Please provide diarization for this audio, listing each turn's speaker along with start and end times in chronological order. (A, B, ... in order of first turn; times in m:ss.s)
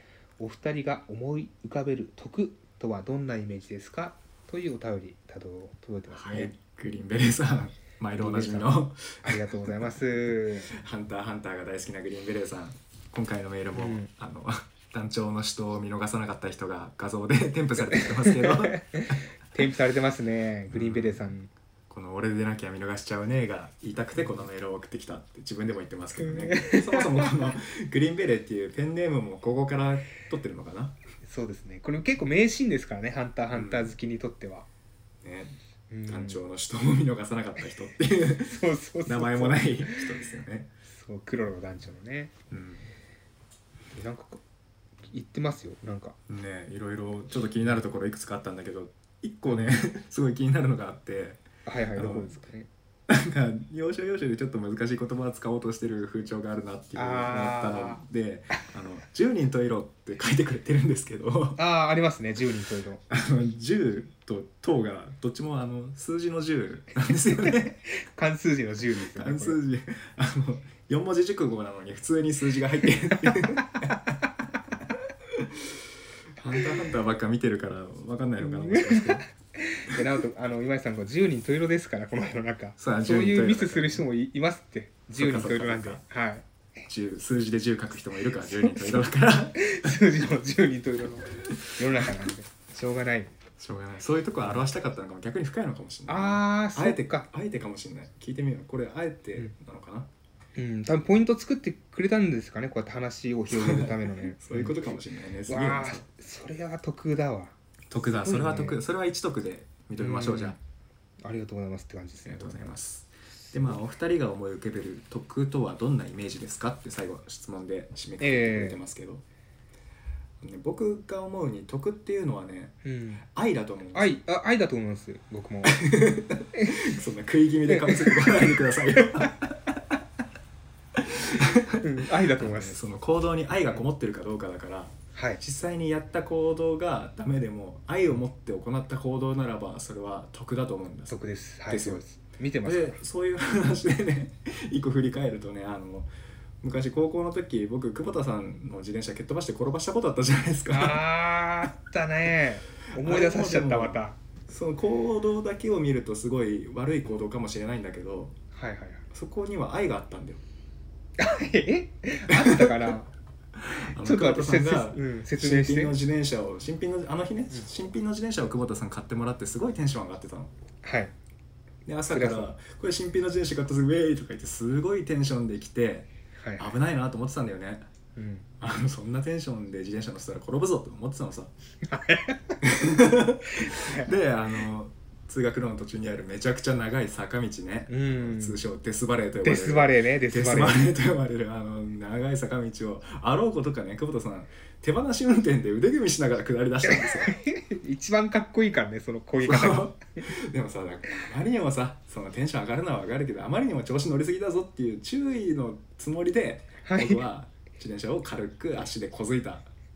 0:00.4-0:06.5 A
0:06.1-0:09.5 B
0:08.2-0:10.7 A
0:10.7-0:19.2 B
0:13.7-0:14.1 A
0:17.9-0:21.5 A
0:20.7-0:21.3 B
0:21.9-0:31.0 B
0:26.2-0:27.5 A
0:31.2-0:34.7 A
0:33.5-0:33.9 B
0:35.2-0:40.7 B
0:35.9-0:36.4 A
0:38.4-0:40.0 A
0:40.9-0:42.3 A
0:42.5-0:42.8 B
0:43.9-0:44.4 A
0:45.0-0:46.2 A
0:46.3-0:51.4 B
0:49.5-0:49.8 A
0:51.6-0:52.7 A
0:52.0-0:52.4 B
0:53.1-1:01.6 B
0:56.9-0:58.0 A
1:01.6-1:03.0 A
1:03.1-1:07.8 B
1:07.5-1:09.6 A
1:09.0-1:14.2 B
1:15.3-1:15.6 B
1:16.4-1:19.2 B
1:18.4-1:26.4 A
1:22.8-1:24.0 B
1:25.1-1:26.0 B
1:26.9-1:30.0 B
1:28.5-1:33.3 A
1:33.6-1:40.1 B
1:36.1-1:37.3 A
1:40.6-1:45.0 A
1:43.5-1:46.0 B
1:45.5-1:48.8 A
1:47.9-1:50.6 B
1:50.0-1:50.6 A
1:51.2-1:52.8 A
1:52.2-1:59.2 B
1:53.4-1:53.8 A
1:58.2-1:58.8 A
2:00.4-2:04.2 B
2:02.8-2:03.2 A
2:03.9-2:05.8 A
2:05.7-2:10.0 B
2:07.7-2:09.3 A
2:10.9-2:22.0 B
2:11.8-2:12.8 A
2:15.1-2:15.4 A
2:21.1-2:23.0 A
2:22.6-2:26.1 B
2:26.6-2:31.0 B
2:30.7-2:34.2 A
2:33.0-2:38.3 B
2:38.5-2:39.0 A
2:39.1-2:40.4 B
2:41.2-2:43.1 A
2:42.3-2:43.0 B
2:43.6-2:50.5 B
2:44.0-2:46.0 A
2:50.8-2:51.1 A
2:51.8-2:57.8 B
2:52.1-2:52.5 A
2:56.4-2:56.7 A
2:58.2-2:58.5 A
2:58.6-3:01.5 B
3:01.9-3:02.6 A
3:02.6-3:17.4 B
3:03.5-3:04.1 A
3:07.9-3:08.6 A
3:09.4-3:10.9 A
3:16.8-3:20.0 A
3:19.4-3:29.7 B
3:26.8-3:27.2 A